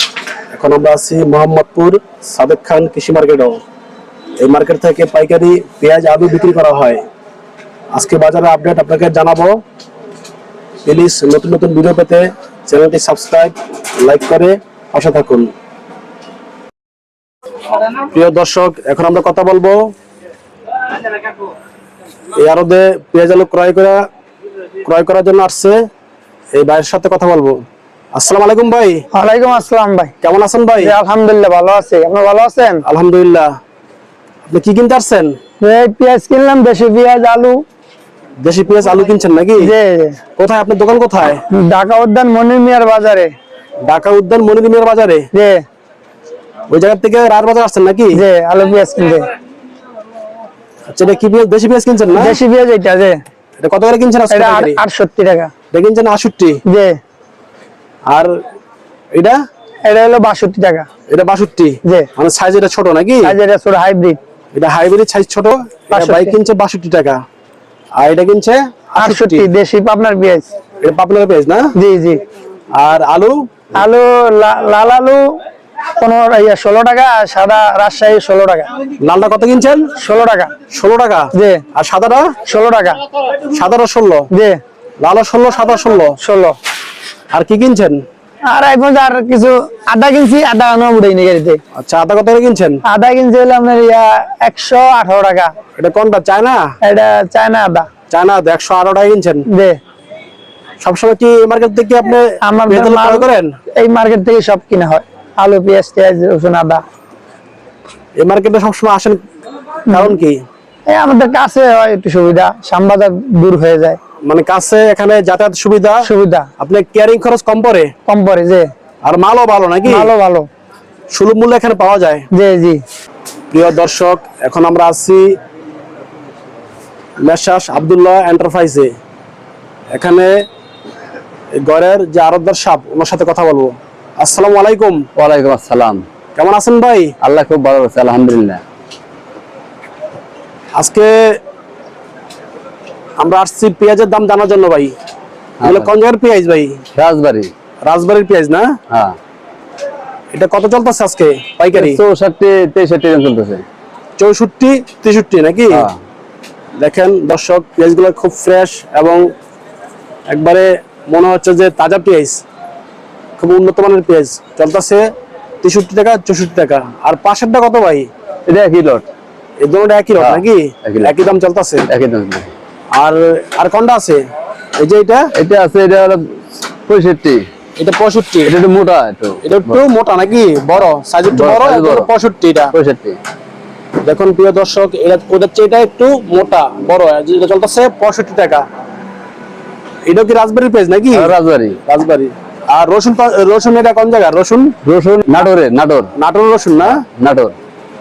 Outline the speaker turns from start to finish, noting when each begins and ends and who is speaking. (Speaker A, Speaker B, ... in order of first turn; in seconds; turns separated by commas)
Speaker A: 0.5-3.6, Speaker A: 4.4-7.0, Speaker A: 7.9-9.6, Speaker A: 10.8-15.5, Speaker A: 18.0-19.8, Speaker A: 22.3-24.1, Speaker A: 24.8-25.8, Speaker A: 26.5-27.6, Speaker A: 28.1-29.0, Speaker B: 29.1-30.1, Speaker A: 30.2-31.0, Speaker B: 30.8-32.8, Speaker A: 32.8-33.5, Speaker A: 34.5-35.4, Speaker B: 35.6-37.6, Speaker A: 38.4-39.7, Speaker B: 39.6-40.2, Speaker A: 40.4-41.4, Speaker B: 41.5-43.3, Speaker A: 43.9-45.3, Speaker B: 45.3-45.6, Speaker A: 46.7-48.2, Speaker B: 48.1-49.3, Speaker A: 50.9-52.4, Speaker B: 52.1-53.2, Speaker A: 53.6-54.8, Speaker B: 54.3-55.5, Speaker A: 55.7-56.6, Speaker B: 56.7-57.0, Speaker A: 58.1-58.4, Speaker A: 59.1-59.4, Speaker B: 59.9-60.9, Speaker A: 61.1-63.4, Speaker B: 61.8-62.1, Speaker B: 63.2-64.2, Speaker A: 64.5-67.2, Speaker B: 65.9-66.3, Speaker A: 68.0-69.5, Speaker B: 69.0-70.5, Speaker A: 70.8-71.7, Speaker B: 71.8-72.2, Speaker A: 72.8-73.5, Speaker B: 73.8-75.2, Speaker B: 76.0-78.7, Speaker A: 79.0-79.8, Speaker B: 80.0-80.5, Speaker A: 80.7-82.3, Speaker B: 81.3-81.6, Speaker B: 82.5-83.0, Speaker A: 83.5-84.3, Speaker B: 84.3-84.6, Speaker A: 85.0-86.2, Speaker B: 86.2-86.6, Speaker A: 87.3-88.0, Speaker B: 88.5-91.6, Speaker A: 91.8-92.8, Speaker B: 92.9-95.5, Speaker A: 95.8-96.7, Speaker B: 96.8-97.9, Speaker A: 98.1-99.5, Speaker B: 99.5-99.8, Speaker A: 100.8-103.5, Speaker B: 102.4-106.8, Speaker A: 108.2-109.2, Speaker A: 109.9-110.4, Speaker B: 110.9-114.0, Speaker A: 114.2-116.1, Speaker B: 116.0-116.5, Speaker A: 116.6-117.9, Speaker B: 118.1-118.7, Speaker A: 119.0-120.1, Speaker B: 119.8-120.5, Speaker A: 121.1-122.2, Speaker B: 122.3-122.8, Speaker A: 123.5-125.3, Speaker A: 127.2-128.9, Speaker A: 129.9-130.4, Speaker A: 131.6-135.1, Speaker C: 135.2-136.0, Speaker A: 136.4-137.1, Speaker C: 137.2-138.6, Speaker A: 140.8-141.4, Speaker A: 143.2-144.9, Speaker C: 145.6-145.9, Speaker A: 145.6-146.8, Speaker C: 146.9-147.5, Speaker A: 147.8-148.7, Speaker C: 148.9-149.2, Speaker A: 150.3-152.0, Speaker C: 151.8-153.6, Speaker A: 154.2-155.9, Speaker C: 155.7-156.0, Speaker A: 156.8-159.2, Speaker A: 160.3-162.4, Speaker A: 163.4-165.1, Speaker A: 165.6-168.1, Speaker C: 168.5-169.1, Speaker A: 169.6-171.9, Speaker C: 170.2-171.1, Speaker C: 171.9-172.5, Speaker A: 173.0-174.2, Speaker A: 174.8-175.3, Speaker C: 175.4-177.4, Speaker A: 177.8-178.5, Speaker C: 178.5-179.8, Speaker A: 179.4-182.7, Speaker C: 181.3-182.1, Speaker C: 182.7-183.2, Speaker A: 184.0-188.7, Speaker A: 190.1-191.3, Speaker C: 191.1-191.8, Speaker A: 191.9-194.7, Speaker C: 194.8-196.1, Speaker A: 196.2-197.0, Speaker C: 197.0-197.6